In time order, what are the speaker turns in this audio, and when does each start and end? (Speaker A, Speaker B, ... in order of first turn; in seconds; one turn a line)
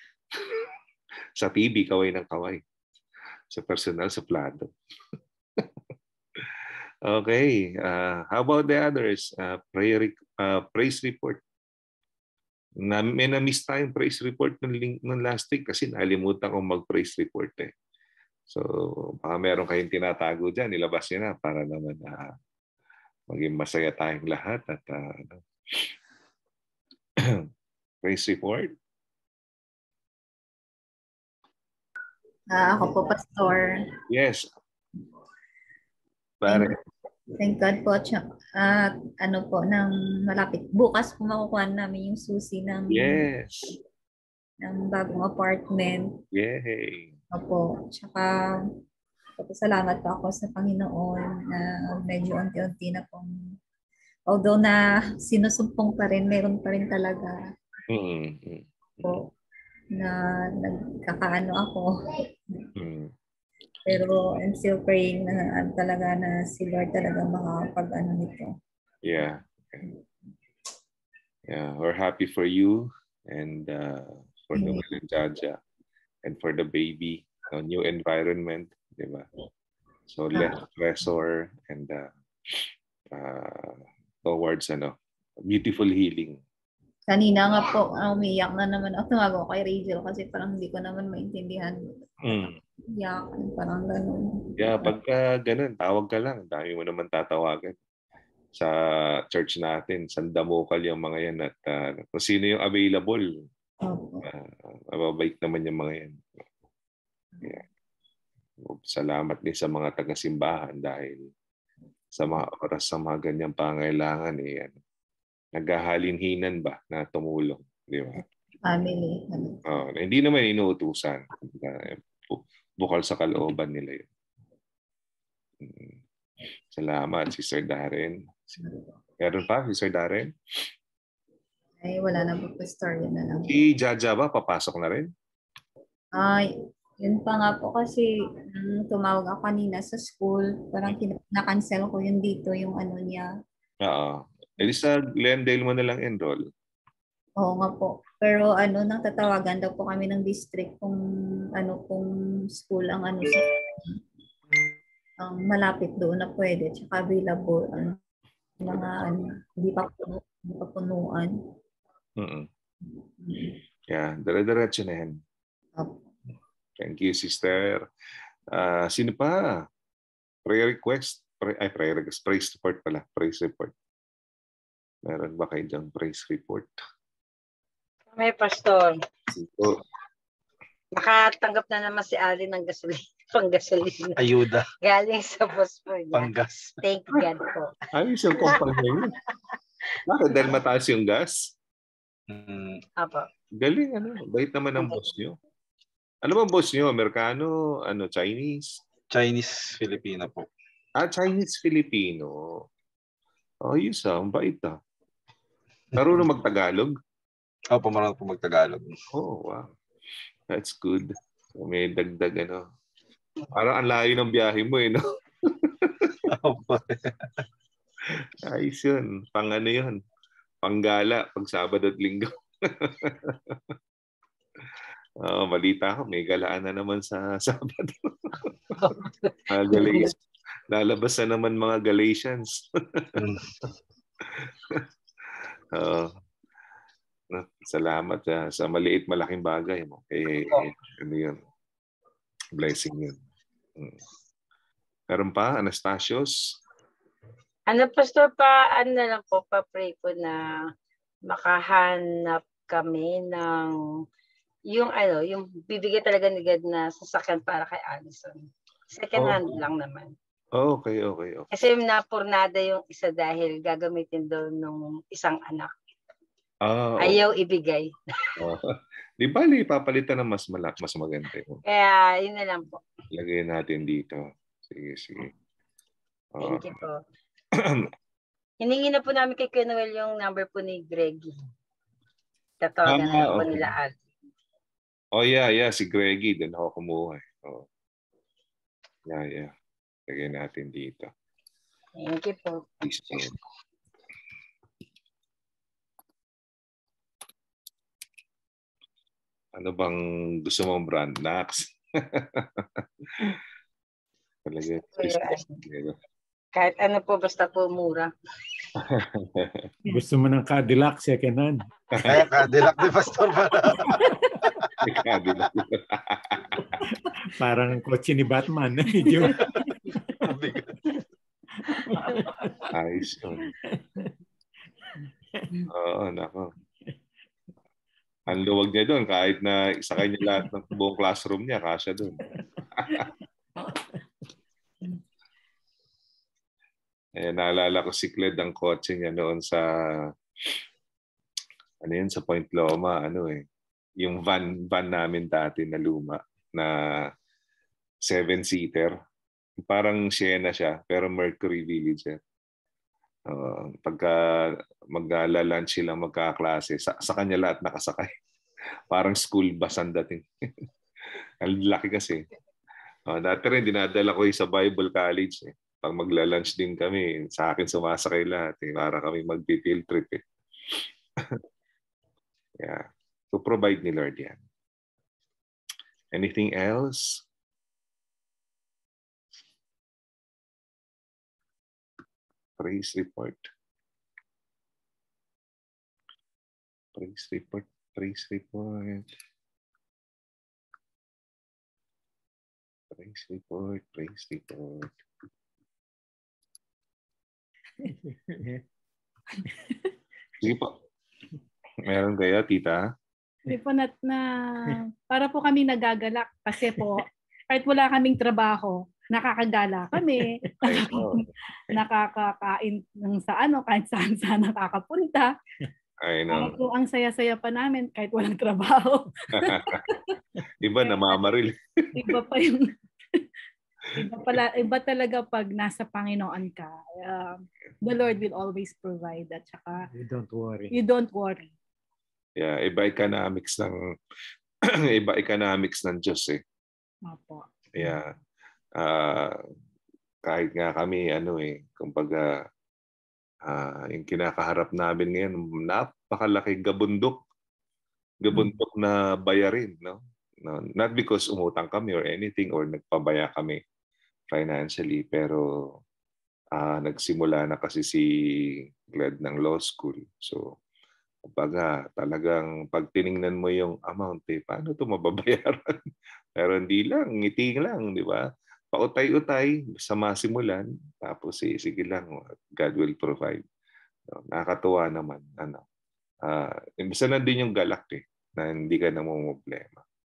Speaker A: 1.4-2.6
Speaker A: 3.5-4.7
Speaker A: 7.0-11.4
Speaker A: 12.8-17.7
Speaker A: 18.5-22.3
Speaker A: 23.3-25.9
Speaker A: 28.0-28.7
Speaker B: 32.5-33.7
Speaker A: 34.1-34.5
Speaker A: 36.4-36.8
Speaker B: 36.5-36.7
Speaker B: 37.3-43.2
Speaker A: 42.9-43.7
Speaker B: 44.6-46.2
Speaker A: 46.3-47.1
Speaker B: 47.3-48.3
Speaker B: 49.4-53.3
Speaker B: 54.3-57.4
Speaker A: 57.9-59.2
Speaker B: 59.9-62.7
Speaker A: 62.8-63.1
Speaker B: 63.9-68.5
Speaker A: 69.0-69.9
Speaker A: 71.5-75.6
Speaker B: 74.6-74.8
Speaker A: 76.2-79.2
Speaker A: 80.1-84.9
Speaker A: 85.5-86.4
Speaker B: 87.1-94.9
Speaker A: 92.2-92.5
Speaker A: 94.6-97.7
Speaker A: 99.3-103.3
Speaker B: 103.8-104.2
Speaker A: 104.2-106.2
Speaker A: 108.6-111.2
Speaker A: 112.1-114.7
Speaker A: 115.5-118.2
Speaker B: 118.7-119.6
Speaker A: 119.7-124.0
Speaker A: 125.6-126.0
Speaker A: 126.7-128.6
Speaker B: 128.6-128.9
Speaker A: 129.2-130.3
Speaker B: 131.8-133.6
Speaker A: 133.4-135.1
Speaker B: 136.2-136.4
Speaker B: 137.0-143.3
Speaker A: 143.8-146.4
Speaker B: 147.4-151.0
Speaker B: 151.6-152.1
Speaker B: 152.6-154.0
Speaker B: 155.2-158.0
Speaker B: 158.6-161.3
Speaker A: 162.2-162.5
Speaker B: 162.9-163.6
Speaker A: 163.9-165.2
Speaker B: 165.8-166.0
Speaker A: 166.8-167.8
Speaker A: 168.5-169.6
Speaker A: 170.4-173.7
Speaker A: 175.1-176.7
Speaker C: 178.1-179.0
Speaker A: 179.3-179.8
Speaker C: 180.9-184.2
Speaker D: 184.2-184.7
Speaker C: 184.8-186.3
Speaker D: 186.1-186.8
Speaker C: 186.8-187.7
Speaker A: 187.9-189.1
Speaker A: 190.1-191.4
Speaker D: 192.3-192.8
Speaker C: 193.0-193.3
Speaker A: 193.6-195.4
Speaker A: 196.2-198.8
Speaker D: 199.1-200.5
Speaker A: 201.0-202.7
Speaker A: 203.6-204.8
Speaker A: 205.9-206.9
Speaker D: 207.7-208.9
Speaker A: 209.1-209.7
Speaker A: 210.5-212.6
Speaker A: 213.5-216.2
Speaker D: 216.3-217.4
Speaker A: 218.4-220.0
Speaker A: 220.6-223.5
Speaker A: 225.2-228.9
Speaker C: 228.8-230.1
Speaker A: 229.5-230.1
Speaker A: 230.7-232.6
Speaker D: 233.2-233.5
Speaker A: 234.3-234.8
Speaker A: 235.7-236.1
Speaker A: 237.3-241.4
Speaker A: 242.6-243.1
Speaker A: 245.1-246.3
Speaker C: 247.7-250.6
Speaker C: 251.3-253.8
Speaker C: 254.7-260.1
Speaker A: 259.1-259.4
Speaker A: 260.5-261.5
Speaker C: 261.5-265.7
Speaker A: 266.6-267.2
Speaker C: 267.0-268.3
Speaker A: 268.4-271.6
Speaker C: 271.6-272.8
Speaker A: 273.1-275.3
Speaker A: 276.3-276.8
Speaker C: 276.4-277.0
Speaker A: 277.6-277.8
Speaker C: 278.6-281.4
Speaker C: 282.6-284.0
Speaker A: 282.9-283.7
Speaker A: 285.1-287.6
Speaker A: 289.1-289.5
Speaker A: 290.1-291.1
Speaker C: 291.9-293.2
Speaker A: 292.8-293.3
Speaker A: 299.6-302.6
Speaker A: 304.5-305.9
Speaker C: 305.0-305.6
Speaker C: 306.5-308.1
Speaker A: 308.8-309.7
Speaker E: 309.9-312.1
Speaker D: 312.0-314.0
Speaker A: 314.8-316.7
Speaker E: 316.9-320.1
Speaker D: 320.2-320.8
Speaker E: 321.6-322.6
Speaker A: 322.7-323.5
Speaker E: 323.7-324.1
Speaker A: 325.7-326.5
Speaker A: 328.3-332.2
Speaker A: 332.8-333.0
Speaker A: 337.1-340.1
Speaker A: 341.8-343.4
Speaker A: 344.0-347.1
Speaker A: 348.0-348.9
Speaker A: 349.6-352.2
Speaker A: 353.3-358.1
Speaker A: 358.9-360.2
Speaker A: 361.4-362.2
Speaker A: 363.1-370.2
Speaker A: 372.6-374.4
Speaker A: 376.1-377.2
Speaker A: 382.6-383.4
Speaker A: 386.9-389.1
Speaker A: 392.9-394.9
Speaker E: 397.8-398.6
Speaker A: 400.4-400.7
Speaker A: 401.9-402.8
Speaker F: 403.5-415.3
Speaker E: 410.0-410.3
Speaker A: 410.6-411.8
Speaker A: 416.0-416.6
Speaker F: 416.3-420.2
Speaker A: 419.4-419.8
Speaker A: 420.6-421.9
Speaker F: 420.8-421.2
Speaker F: 421.9-422.7
Speaker F: 423.9-429.9
Speaker E: 429.9-430.8
Speaker F: 430.7-431.5
Speaker A: 432.4-433.8
Speaker A: 434.9-436.4
Speaker F: 437.1-437.4
Speaker A: 437.8-438.1
Speaker A: 438.8-439.4
Speaker A: 440.2-442.3
Speaker A: 443.4-447.2
Speaker A: 448.2-453.6
Speaker A: 454.3-455.4
Speaker A: 456.5-458.1
Speaker A: 458.9-460.5
Speaker A: 461.3-465.6
Speaker A: 466.4-473.4
Speaker A: 474.1-475.6
Speaker A: 476.2-479.8